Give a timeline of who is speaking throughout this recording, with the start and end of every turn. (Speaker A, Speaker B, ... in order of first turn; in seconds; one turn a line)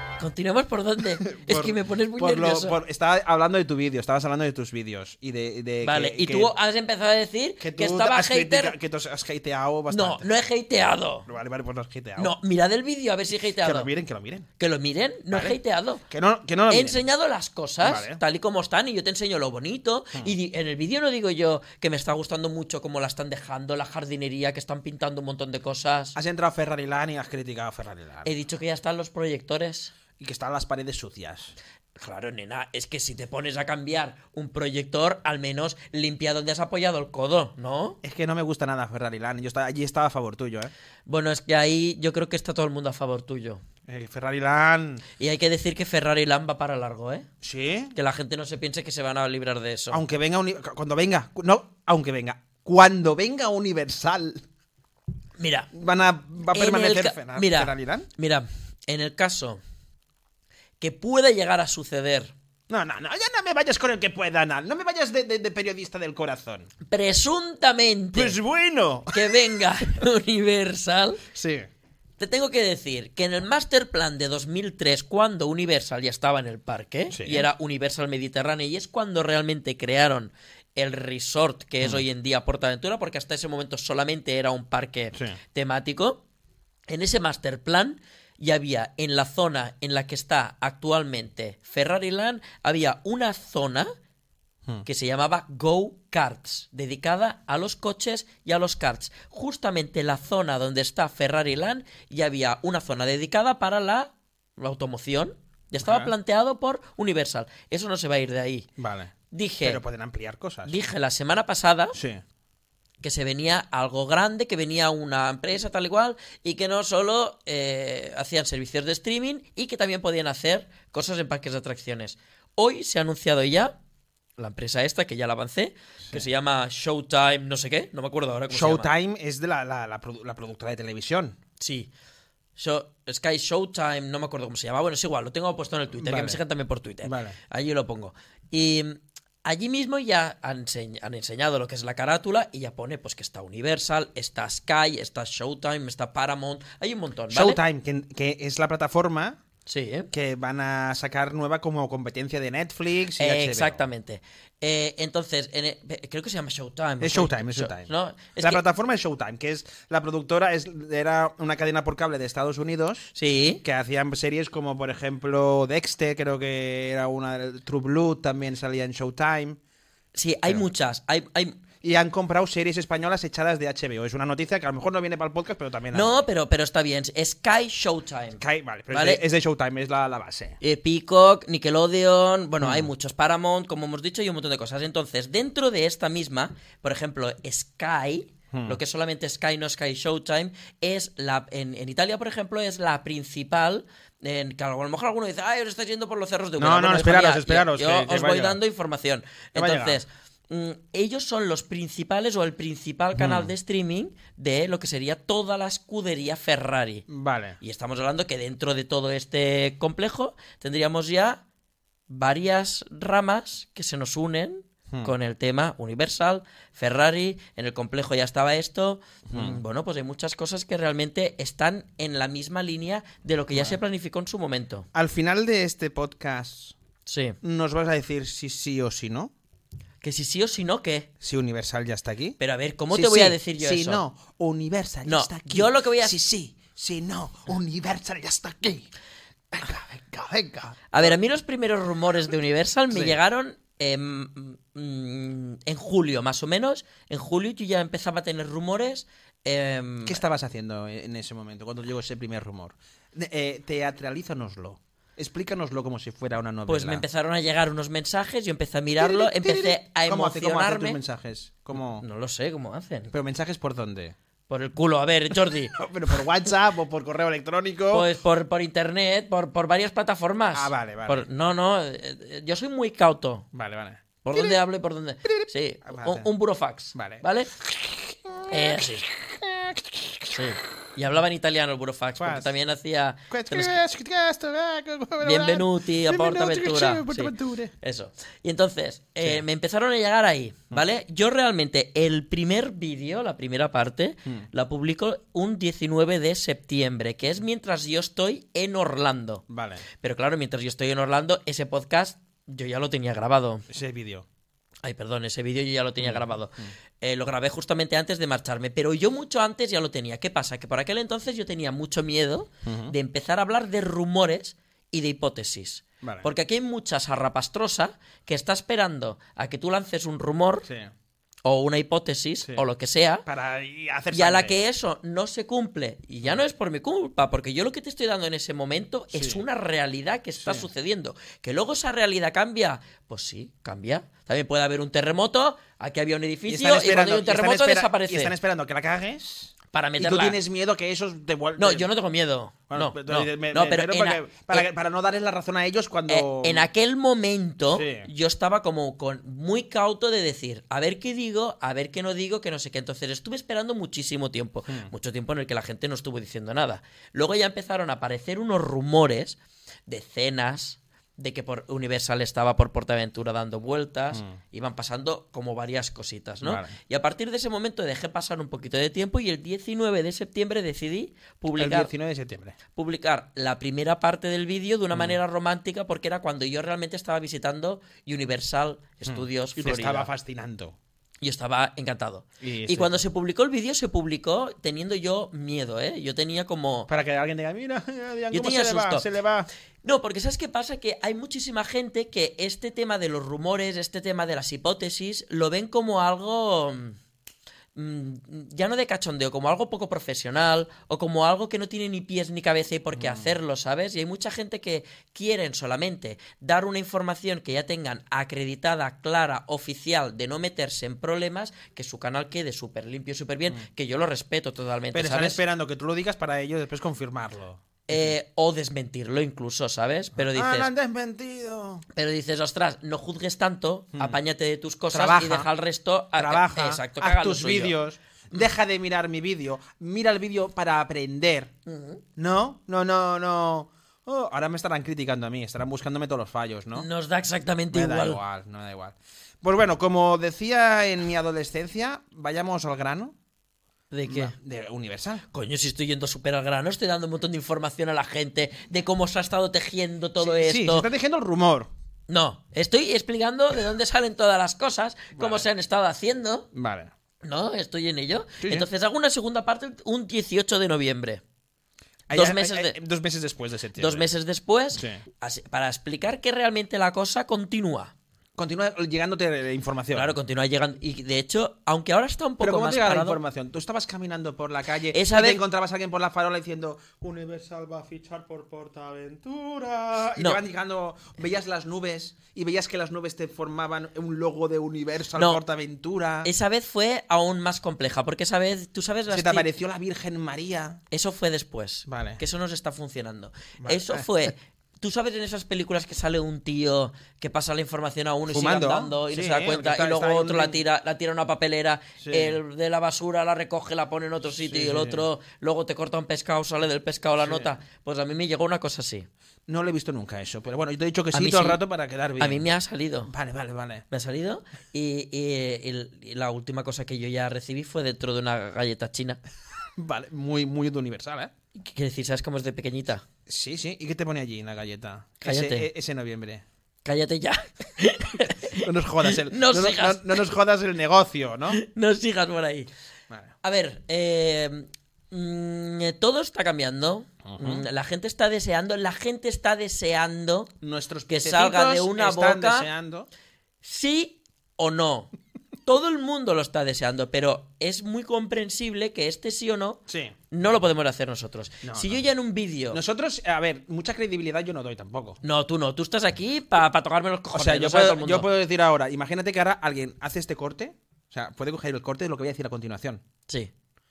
Speaker A: 0.2-2.8
Speaker B: 1.2-6.5
Speaker A: 5.8-8.8
Speaker B: 7.6-10.3
Speaker A: 9.9-11.3
Speaker B: 11.2-12.3
Speaker A: 12.2-13.9
Speaker B: 13.6-14.5
Speaker A: 14.6-16.0
Speaker B: 15.3-15.6
Speaker B: 16.1-17.0
Speaker A: 16.7-26.1
Speaker B: 17.8-18.2
Speaker B: 26.1-28.3
Speaker A: 28.2-29.9
Speaker B: 30.2-31.5
Speaker A: 32.0-38.0
Speaker B: 38.0-40.7
Speaker A: 41.1-43.6
Speaker B: 43.9-45.0
Speaker A: 45.2-47.3
Speaker B: 47.4-47.9
Speaker A: 47.9-50.0
Speaker B: 49.9-54.4
Speaker A: 55.4-55.7
Speaker B: 55.7-58.1
Speaker A: 56.5-59.6
Speaker A: 60.8-62.3
Speaker B: 62.7-66.7
Speaker A: 66.9-68.4
Speaker B: 68.1-69.4
Speaker A: 69.1-71.2
Speaker B: 71.3-71.7
Speaker A: 72.2-86.2
Speaker B: 77.1-77.5
Speaker A: 86.9-93.9
Speaker A: 94.8-108.7
Speaker B: 105.8-106.1
Speaker B: 108.8-110.8
Speaker A: 109.3-109.8
Speaker A: 110.7-112.0
Speaker B: 111.9-112.2
Speaker A: 113.0-123.7
Speaker A: 124.4-128.9
Speaker B: 128.5-131.4
Speaker A: 131.6-131.9
Speaker A: 132.6-147.6
Speaker B: 135.9-136.4
Speaker B: 137.0-137.4
Speaker B: 147.3-149.4
Speaker A: 149.7-150.1
Speaker B: 150.1-153.8
Speaker A: 153.2-158.6
Speaker B: 157.0-169.6
Speaker A: 163.1-163.6
Speaker A: 170.1-171.6
Speaker B: 171.8-176.2
Speaker A: 175.9-179.2
Speaker B: 178.4-180.6
Speaker A: 180.6-207.1
Speaker B: 182.6-182.9
Speaker B: 188.5-188.8
Speaker B: 196.6-198.6
Speaker B: 199.5-200.0
Speaker B: 203.2-203.5
Speaker B: 207.1-207.6
Speaker A: 207.6-211.4
Speaker A: 212.1-224.9
Speaker B: 219.3-219.6
Speaker B: 224.9-226.8
Speaker A: 227.1-227.4
Speaker B: 227.4-229.3
Speaker A: 230.0-231.1
Speaker B: 231.2-232.4
Speaker A: 232.4-234.0
Speaker B: 232.9-238.9
Speaker A: 235.0-236.1
Speaker B: 239.5-241.2
Speaker A: 240.9-250.2
Speaker B: 242.9-243.2
Speaker B: 250.0-257.0
Speaker A: 256.7-261.0
Speaker B: 259.0-262.0
Speaker A: 261.7-263.1
Speaker B: 263.1-264.1
Speaker A: 264.5-265.8
Speaker B: 265.7-268.1
Speaker A: 267.9-273.5
Speaker B: 270.5-271.3
Speaker B: 273.5-274.6
Speaker A: 274.2-277.5
Speaker B: 275.2-276.3
Speaker B: 276.9-280.4
Speaker A: 278.5-279.1
Speaker A: 280.3-283.8
Speaker B: 282.2-282.5
Speaker B: 283.3-287.7
Speaker A: 285.2-299.4
Speaker B: 299.5-299.8
Speaker A: 300.0-303.6
Speaker B: 303.7-304.2
Speaker A: 304.8-320.7
Speaker B: 306.0-306.7
Speaker B: 312.6-312.9
Speaker B: 316.0-316.3
Speaker B: 320.7-320.9
Speaker A: 321.4-323.2
Speaker B: 323.2-324.6
Speaker A: 324.1-338.3
Speaker B: 329.1-329.4
Speaker B: 330.4-330.7
Speaker B: 336.5-341.9
Speaker A: 339.7-340.4
Speaker A: 341.6-344.6
Speaker B: 342.7-346.7
Speaker A: 346.1-371.9
Speaker B: 347.7-348.1
Speaker B: 364.1-364.4
Speaker B: 366.4-366.7
Speaker B: 371.5-372.6
Speaker A: 372.7-380.1
Speaker B: 374.9-375.2
Speaker B: 379.0-380.8
Speaker A: 381.2-386.9
Speaker B: 382.4-383.0
Speaker B: 386.9-389.5
Speaker A: 388.3-389.1
Speaker A: 389.8-397.0
Speaker A: 397.7-415.4
Speaker B: 402.9-403.4
Speaker B: 414.9-418.1
Speaker A: 417.9-420.7
Speaker B: 420.1-421.8
Speaker A: 421.9-427.8
Speaker B: 423.9-424.2
Speaker B: 424.9-425.5
Speaker B: 426.2-431.5
Speaker A: 431.6-432.0
Speaker B: 432.2-436.9
Speaker A: 436.7-438.2
Speaker B: 437.7-443.1
Speaker A: 443.9-444.3
Speaker B: 444.1-445.2
Speaker A: 445.3-450.9
Speaker B: 450.2-451.7
Speaker A: 452.1-456.5
Speaker B: 455.1-455.5
Speaker B: 456.5-456.9
Speaker A: 457.2-461.2
Speaker B: 458.4-458.7
Speaker B: 462.1-464.1
Speaker A: 462.1-462.8
Speaker A: 463.8-467.9
Speaker B: 464.8-465.0
Speaker B: 468.4-470.2
Speaker A: 469.9-473.2
Speaker B: 472.4-486.3
Speaker A: 474.9-475.4
Speaker A: 485.1-485.4
Speaker A: 486.2-489.5
Speaker B: 489.1-490.8
Speaker A: 490.9-509.1
Speaker B: 491.9-492.2
Speaker B: 493.6-494.1
Speaker B: 498.3-500.6
Speaker B: 502.0-502.4
Speaker B: 504.3-505.0
Speaker B: 507.2-507.5
Speaker B: 509.5-512.5
Speaker A: 511.1-511.6
Speaker A: 512.2-513.1
Speaker B: 513.1-513.9
Speaker A: 513.9-519.2
Speaker B: 519.8-521.3
Speaker A: 521.5-523.0
Speaker B: 523.3-526.4
Speaker A: 525.2-525.7
Speaker A: 526.8-530.2
Speaker B: 528.5-531.6
Speaker A: 531.5-532.7
Speaker B: 533.1-533.3
Speaker A: 533.4-540.5
Speaker B: 537.2-537.6
Speaker B: 540.6-543.1
Speaker A: 541.1-542.7
Speaker A: 543.6-545.1
Speaker A: 545.6-552.8
Speaker B: 549.9-550.1
Speaker B: 551.6-552.0
Speaker B: 552.7-555.2
Speaker A: 555.2-558.3
Speaker B: 557.3-563.0